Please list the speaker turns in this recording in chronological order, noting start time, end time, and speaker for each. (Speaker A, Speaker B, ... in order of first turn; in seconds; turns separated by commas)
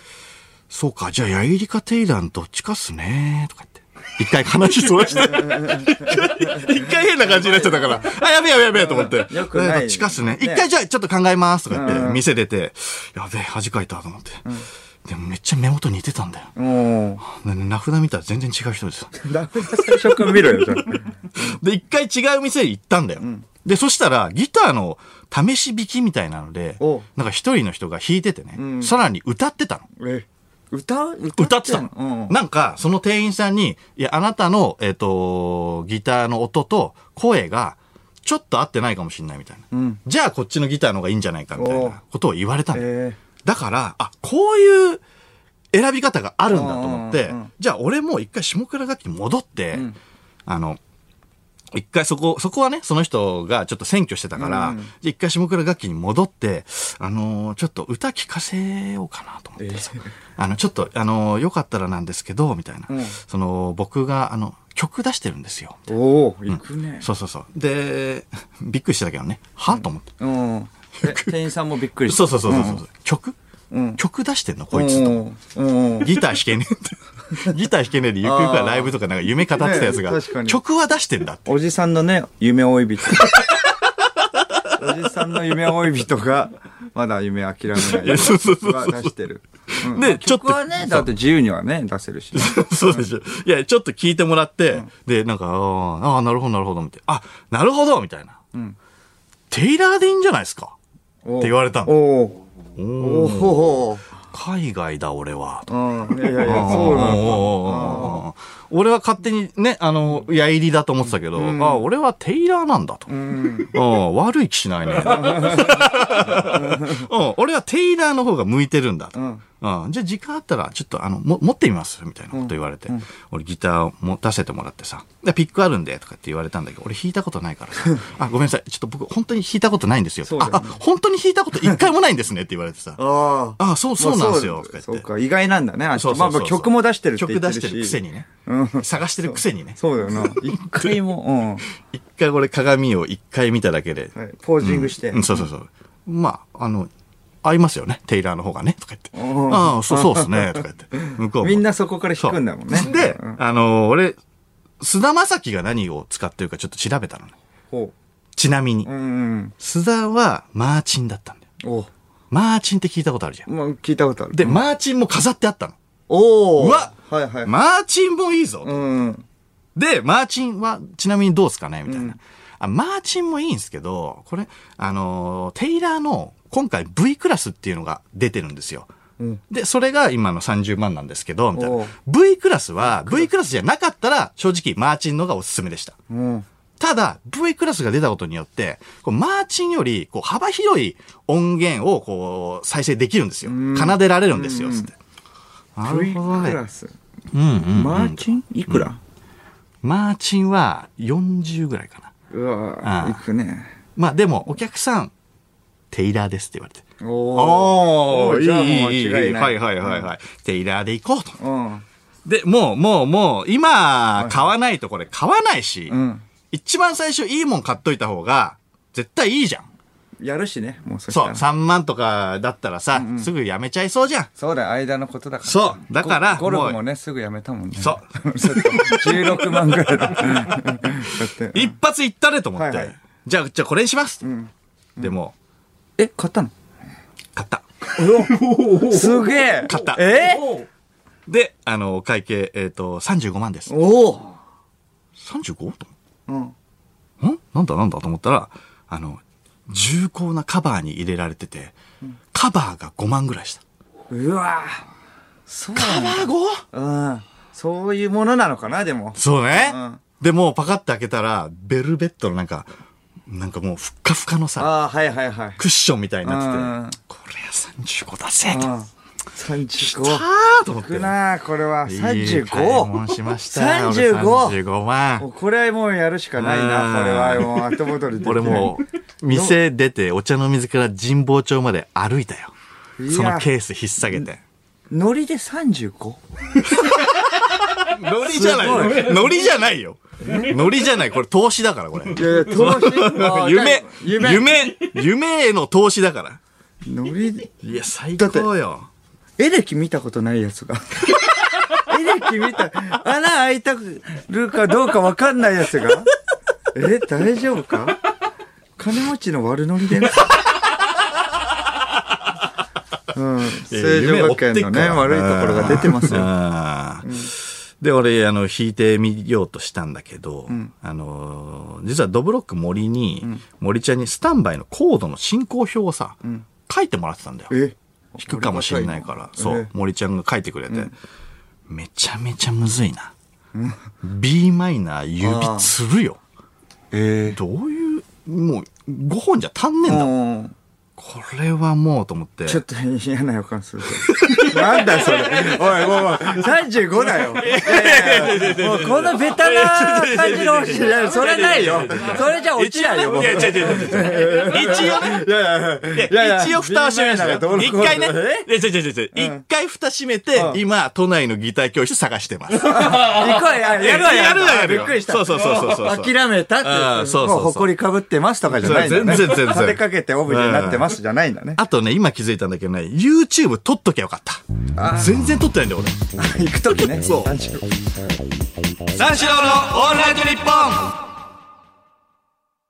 Speaker A: 0.7-16.6, Speaker B: 5.1-8.1, Speaker B: 8.7-10.7, Speaker B: 11.7-12.2, Speaker B: 16.6-17.2, Speaker A: 17.2-20.6, Speaker B: 19.1-21.6, Speaker A: 21.3-29.9, Speaker B: 23.2-23.4, Speaker B: 26.8-27.1, Speaker B: 28.6-28.9, Speaker B: 30.0-32.3, Speaker A: 31.3-42.9, Speaker B: 39.7-40.0, Speaker B: 41.5-42.0, Speaker B: 42.7-43.2, Speaker A: 43.4-45.0, Speaker A: 45.7-49.9, Speaker B: 46.5-47.5, Speaker A: 50.5-50.8, Speaker A: 51.7-65.8, Speaker B: 54.4-54.9, Speaker B: 59.6-60.0, Speaker B: 62.9-63.2, Speaker B: 65.9-67.1, Speaker A: 66.5-70.1, Speaker B: 69.7-72.8, Speaker A: 71.0-71.3, Speaker A: 72.0-73.3, Speaker B: 73.7-74.0, Speaker A: 74.0-75.2, Speaker B: 74.7-76.2, Speaker A: 76.0-81.5, Speaker B: 78.2-78.9, Speaker B: 79.6-80.6, Speaker B: 81.5-83.5, Speaker A: 83.2-83.7, Speaker A: 84.2-84.8, Speaker B: 84.7-93.0, Speaker A: 87.7-89.1, Speaker A: 89.7-91.1, Speaker A: 92.3-98.4, Speaker A: 99.5-100.8, Speaker B: 101.2-102.4, Speaker A: 101.4-102.0, Speaker A: 102.8-105.7, Speaker B: 103.0-104.0, Speaker B: 105.7-108.2, Speaker A: 106.3-135.0, Speaker B: 111.3-111.8, Speaker B: 113.1-113.7, Speaker B: 115.0-117.0, Speaker B: 119.1-119.4, Speaker B: 122.3-123.0, Speaker B: 130.2-130.8, Speaker B: 133.0-141.6, Speaker A: 135.9-138.3, Speaker A: 138.8-141.0, Speaker A: 141.8-146.9, Speaker B: 144.2-145.4, Speaker A: 147.4-151.7, Speaker B: 149.1-153.4, Speaker A: 152.2-154.2, Speaker A: 154.8-157.3, Speaker A: 158.3-158.9, Speaker B: 158.8-159.5, Speaker A: 159.6-161.4, Speaker B: 161.6-161.9, Speaker A: 162.3-163.5, Speaker B: 163.5-164.6, Speaker A: 164.3-165.8, Speaker B: 166.1-167.5, Speaker A: 166.6-166.9, Speaker A: 167.4-168.8, Speaker B: 168.6-169.2, Speaker A: 169.8-178.9, Speaker B: 171.9-172.2, Speaker A: 179.5-186.0, Speaker B: 181.5-181.9, Speaker B: 182.9-183.3, Speaker B: 186.1-186.4, Speaker A: 186.8-194.9, Speaker B: 193.4-194.9, Speaker A: 195.8-196.6, Speaker B: 195.8-196.9, Speaker A: 197.3-198.9, Speaker B: 197.7-199.0, Speaker A: 199.8-202.1, Speaker B: 202.3-203.7, Speaker A: 202.8-203.2, Speaker A: 203.9-205.1, Speaker A: 205.9-211.4, Speaker B: 207.0-210.1, Speaker B: 211.4-211.8, Speaker A: 212.2-216.0, Speaker B: 215.9-216.2, Speaker A: 216.5-219.7, Speaker B: 220.2-221.4, Speaker A: 221.1-224.3, Speaker B: 222.9-223.3, Speaker B: 224.4-231.7, Speaker A: 225.4-226.8, Speaker A: 227.8-234.2, Speaker B: 232.6-232.9, Speaker B: 234.2-235.1, Speaker A: 235.0-235.3, Speaker B: 236.0-236.5, Speaker A: 237.3-237.6, Speaker B: 237.9-240.7, Speaker A: 238.5-239.0, Speaker A: 239.5-240.1, Speaker A: 241.3-243.7, Speaker B: 243.7-244.3, Speaker A: 245.2-245.9, Speaker B: 246.3-246.5, Speaker A: 247.2-251.8, Speaker A: 252.3-253.6, Speaker B: 254.1-254.9, Speaker B: 255.5-260.0, Speaker A: 255.8-256.6, Speaker A: 259.1-262.7, Speaker A: 263.3-264.7, Speaker B: 264.6-265.6, Speaker A: 265.6-268.7, Speaker B: 266.2-267.0, Speaker B: 268.5-270.2, Speaker A: 269.8-271.1, Speaker B: 270.8-272.9, Speaker A: 271.9-275.3, Speaker B: 273.5-274.6, Speaker B: 275.2-278.7, Speaker A: 276.4-282.5, Speaker B: 279.3-279.6, Speaker B: 283.0-283.5, Speaker A: 283.1-284.4, Speaker B: 284.9-286.2, Speaker A: 286.6-296.4, Speaker B: 288.2-289.3, Speaker B: 292.1-294.6, Speaker B: 296.8-297.5, Speaker A: 297.6-298.9, Speaker B: 298.2-298.5, Speaker B: 299.4-306.1, Speaker B: 306.7-308.0, Speaker B: 308.8-310.4, Speaker B: 313.1-316.3, Speaker A: 313.5-327.5, Speaker B: 317.0-317.3, Speaker B: 327.5-329.7, Speaker A: 328.2-330.9, Speaker A: 331.7-333.1, Speaker B: 333.5-333.8, Speaker A: 334.0-336.2, Speaker B: 335.2-335.7, Speaker B: 336.9-337.4, Speaker A: 337.3-340.1, Speaker B: 339.9-340.5, Speaker A: 341.0-342.6, Speaker B: 342.4-358.5, Speaker A: 344.0-346.2, Speaker A: 347.2-355.3, Speaker A: 355.9-367.7, Speaker B: 359.1-359.4, Speaker B: 362.6-371.6, Speaker A: 368.6-370.9, Speaker A: 371.6-376.1, Speaker B: 374.8-375.3, Speaker B: 376.1-377.9, Speaker A: 377.0-377.3, Speaker A: 378.9-381.0